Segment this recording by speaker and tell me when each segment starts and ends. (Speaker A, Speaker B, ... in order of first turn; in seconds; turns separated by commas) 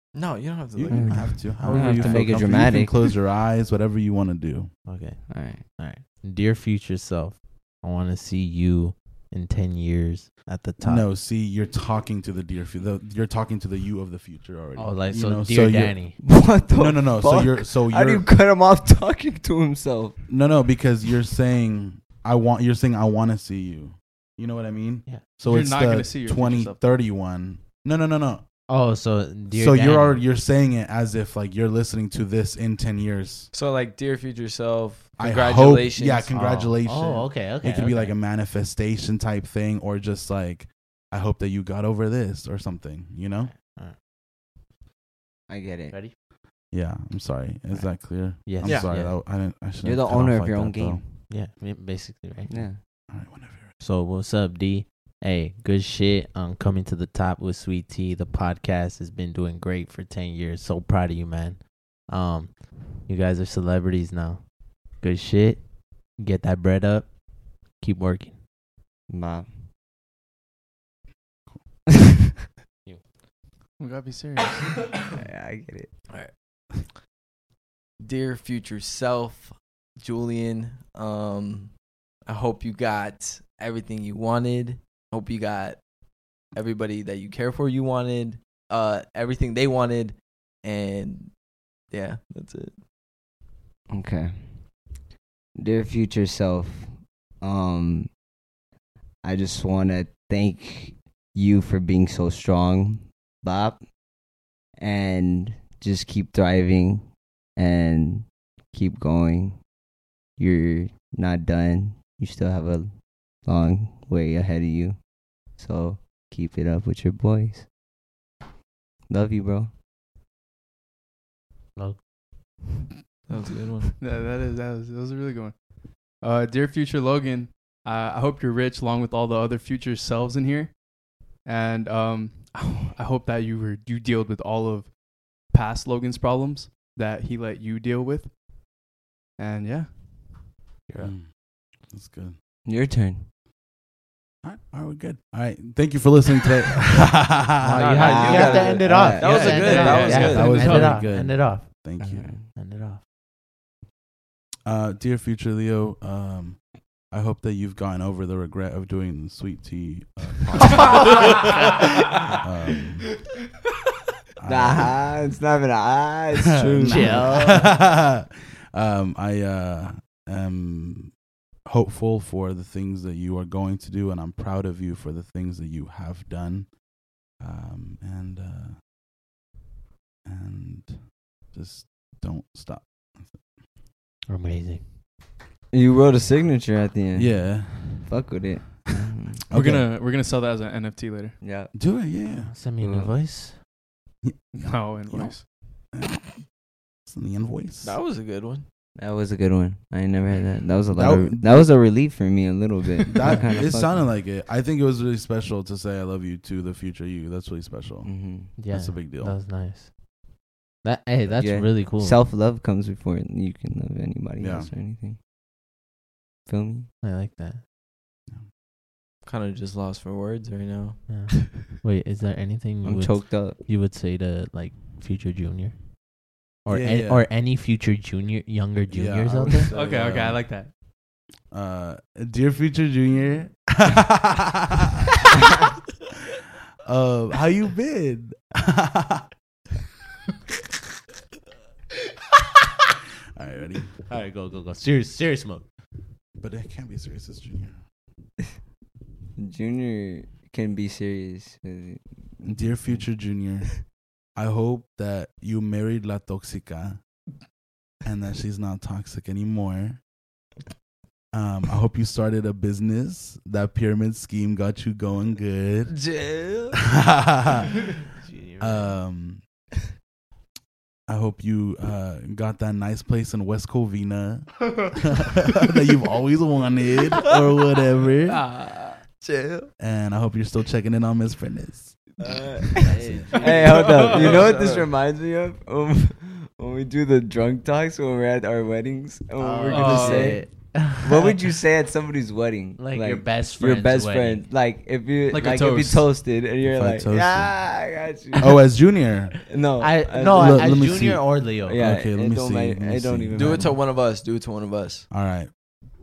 Speaker A: 0.1-1.4, Speaker B: 0.7-4.7, Speaker C: 0.9-3.1, Speaker D: 1.6-2.2, Speaker D: 4.8-11.1, Speaker C: 5.3-5.7, Speaker B: 10.8-18.3, Speaker D: 14.8-16.2, Speaker C: 16.2-20.2, Speaker B: 20.3-28.4, Speaker E: 25.4-26.8, Speaker D: 28.7-30.2, Speaker B: 29.5-33.5, Speaker A: 33.5-36.3, Speaker B: 35.2-43.5, Speaker D: 36.3-38.1, Speaker D: 43.5-44.0, Speaker C: 45.5-46.0, Speaker B: 46.7-51.0, Speaker D: 47.7-49.1, Speaker A: 48.6-49.0, Speaker C: 49.8-51.2, Speaker D: 51.2-53.1, Speaker C: 52.5-52.8, Speaker B: 53.1-53.7, Speaker D: 53.8-68.4, Speaker C: 69.1-69.6, Speaker E: 73.8-74.8, Speaker C: 75.1-76.0, Speaker A: 76.1-76.7, Speaker A: 78.0-85.9, Speaker A: 86.4-92.8, Speaker C: 93.9-94.8, Speaker C: 95.5-98.2, Speaker C: 99.2-103.9, Speaker C: 104.7-109.7, Speaker C: 110.3-117.7, Speaker C: 119.1-119.7, Speaker D: 121.8-122.1, Speaker A: 123.3-123.9, Speaker E: 124.0-130.8, Speaker E: 131.3-138.3, Speaker E: 139.4-140.0, Speaker D: 140.9-141.1, Speaker B: 141.0-142.4, Speaker C: 142.6-143.3, Speaker B: 144.4-147.9, Speaker D: 147.6-151.8, Speaker A: 147.8-150.9, Speaker C: 147.9-150.4, Speaker E: 149.2-151.0, Speaker B: 149.7-152.3, Speaker C: 152.0-152.5, Speaker D: 152.4-153.0, Speaker B: 154.6-161.6, Speaker D: 160.8-161.4, Speaker B: 162.3-163.1, Speaker B: 164.4-165.0, Speaker C: 164.4-167.7, Speaker B: 166.3-178.8, Speaker D: 166.8-167.7, Speaker B: 180.2-183.4, Speaker D: 184.3-184.9, Speaker C: 185.7-189.4, Speaker B: 187.1-188.2, Speaker B: 189.5-189.9, Speaker E: 189.5-191.4, Speaker C: 191.4-191.7, Speaker B: 191.7-192.5, Speaker D: 192.3-193.6, Speaker C: 192.8-193.1, Speaker B: 194.2-196.4, Speaker E: 194.6-195.4, Speaker B: 197.0-198.0, Speaker A: 197.8-198.6, Speaker C: 198.9-204.1, Speaker B: 200.9-202.2, Speaker B: 203.1-209.4, Speaker C: 208.0-208.6, Speaker D: 208.6-210.0, Speaker D: 210.8-212.2, Speaker C: 211.3-215.2, Speaker B: 214.4-214.7, Speaker C: 216.4-216.9, Speaker D: 217.0-217.6, Speaker A: 219.2-221.2, Speaker D: 221.1-229.7, Speaker C: 222.8-223.6, Speaker B: 226.7-227.3, Speaker B: 228.9-230.4, Speaker E: 229.7-230.7, Speaker B: 231.5-235.0, Speaker B: 236.8-239.2, Speaker B: 243.3-243.9, Speaker D: 244.1-245.6, Speaker B: 246.4-247.8, Speaker C: 249.4-253.0, Speaker B: 252.4-257.0, Speaker B: 258.0-260.0, Speaker B: 261.3-266.1, Speaker A: 265.9-266.8, Speaker B: 266.9-267.7, Speaker D: 268.2-268.9, Speaker B: 268.6-269.4, Speaker B: 271.1-278.4, Speaker E: 278.4-278.7, Speaker A: 278.9-279.7, Speaker B: 279.8-282.2, Speaker C: 282.5-282.9, Speaker D: 282.8-284.0, Speaker A: 283.4-284.9, Speaker C: 283.4-298.8, Speaker E: 283.7-284.6, Speaker D: 289.4-291.3, Speaker E: 289.7-290.5, Speaker D: 292.8-294.5, Speaker E: 295.3-296.1, Speaker B: 296.6-299.4, Speaker C: 299.5-301.0, Speaker D: 299.8-301.8, Speaker B: 300.3-303.7, Speaker C: 301.6-303.8, Speaker A: 303.3-305.1, Speaker B: 305.1-305.5